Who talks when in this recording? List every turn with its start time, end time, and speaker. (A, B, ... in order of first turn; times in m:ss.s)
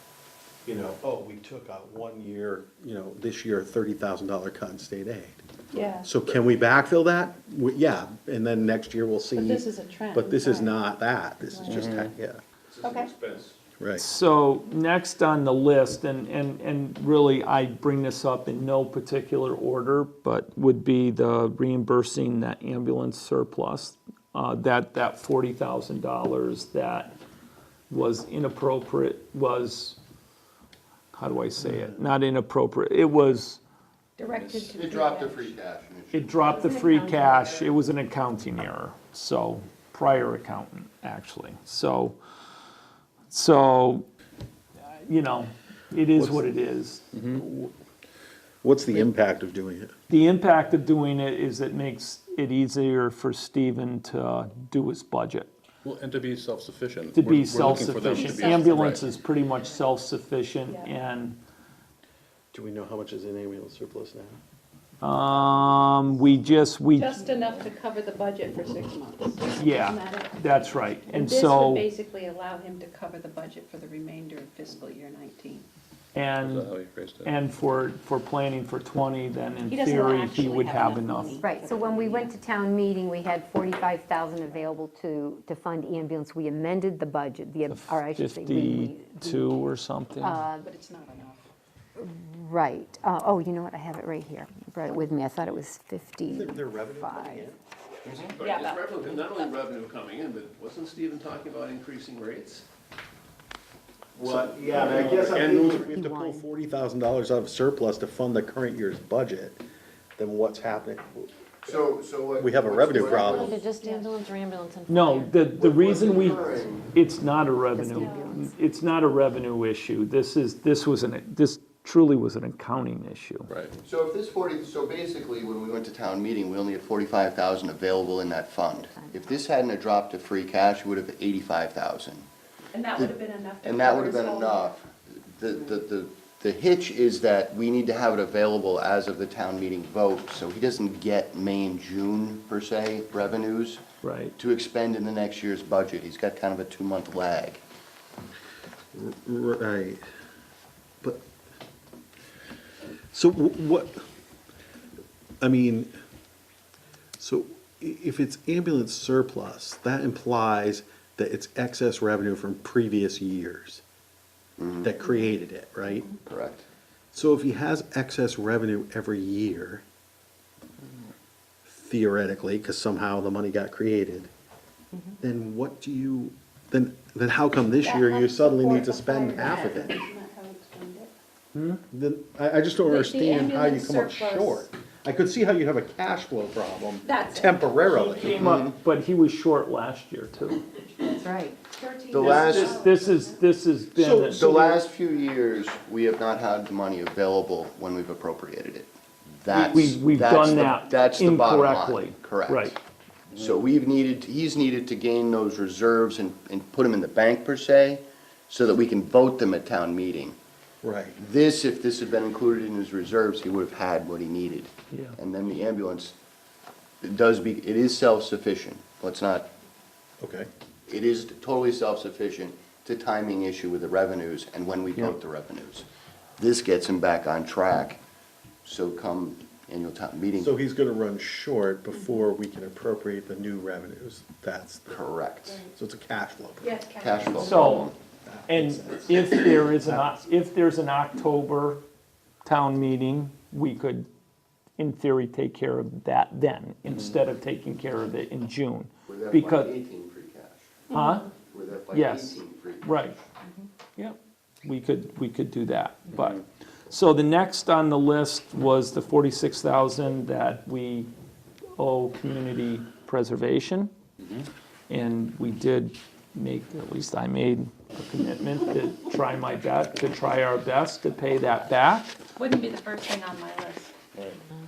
0:00.6-0:05.4 A
0:05.7-0:06.1 B
0:06.0-0:12.4 A
0:09.4-0:10.8 B
0:11.5-0:11.8 B
0:11.7-0:12.1 C
0:12.7-0:13.6 D
0:12.8-0:13.1 B
0:13.8-0:14.0 A
0:14.0-0:27.1 E
0:27.9-0:30.0 E
0:31.1-0:33.6 E
0:34.2-0:35.6 B
0:34.7-0:36.5 F
0:36.1-0:42.2 E
0:36.4-0:37.7 B
0:43.3-0:44.0 E
0:44.9-0:47.0 E
0:46.2-0:46.5 A
0:47.2-0:47.7 A
0:48.6-0:49.9 A
0:50.1-0:55.5 E
0:55.8-0:59.1 C
0:57.1-1:01.4 E
0:58.0-0:59.1 B
1:00.7-1:00.9 B
1:02.5-1:04.4 A
1:05.0-1:07.2 E
1:07.0-1:15.6 B
1:09.6-1:11.9 E
1:16.1-1:21.4 E
1:16.4-1:17.3 C
1:19.6-1:22.3 B
1:21.4-1:29.5 G
1:27.7-1:30.4 E
1:30.2-1:30.6 G
1:30.6-1:31.5 B
1:32.0-1:37.5 G
1:36.3-1:37.6 A
1:38.1-1:42.6 D
1:38.4-1:39.4 B
1:44.2-1:49.6 A
1:44.3-1:45.9 D
1:45.3-1:46.5 G
1:50.2-1:51.3 A
1:51.6-1:53.6 F
1:52.4-1:53.6 A
1:52.9-1:55.4 H
1:53.8-1:54.0 G
1:53.8-1:54.2 B
1:54.9-2:03.5 E
1:55.5-1:56.9 F
1:57.7-1:58.5 G
1:57.8-1:58.4 B
2:03.8-2:12.3 F
2:08.8-2:09.2 G
2:12.7-2:14.7 B
2:12.9-2:23.8 F
2:24.0-2:24.3 E
2:24.4-2:27.6 F
2:28.9-2:30.0 A
2:31.0-2:31.3 A
2:33.1-2:34.0 A
2:35.4-2:35.9 A
2:37.2-2:43.8 A
2:44.6-2:44.9 F
2:44.8-2:46.1 A
2:46.2-2:46.6 F
2:47.1-2:49.8 A
2:51.6-2:54.3 A
2:55.2-3:00.0 A
2:57.8-3:01.1 B
3:01.5-3:01.8 E
3:01.9-3:08.5 A
3:02.8-3:04.7 B
3:07.0-3:08.0 B
3:07.9-3:10.6 E
3:08.3-3:08.7 F
3:11.2-3:11.6 G
3:11.7-3:13.4 B
3:12.1-3:12.8 F
3:12.3-3:14.5 E
3:13.9-3:14.8 A
3:14.3-3:22.7 F
3:19.5-3:22.7 E
3:23.4-3:30.4 F
3:30.8-3:31.2 A
3:31.2-3:36.1 F
3:37.0-3:39.5 F
3:40.2-3:40.5 A
3:40.9-3:45.8 F
3:46.4-3:48.0 F
3:48.6-3:50.5 F
3:50.4-3:55.0 A
3:54.9-3:55.6 F
3:55.7-3:56.8 A
3:56.6-3:57.9 B
3:57.0-3:57.9 F
3:57.4-3:57.9 E
3:58.2-4:00.2 A
3:58.5-4:01.8 E
4:02.4-4:04.1 E
4:04.8-4:09.7 E
4:09.1-4:10.8 F
4:10.9-4:11.3 E
4:11.4-4:13.1 F
4:11.9-4:13.2 E
4:14.0-4:21.1 E
4:21.8-4:23.9 E
4:24.9-4:32.2 E
4:32.4-4:33.9 B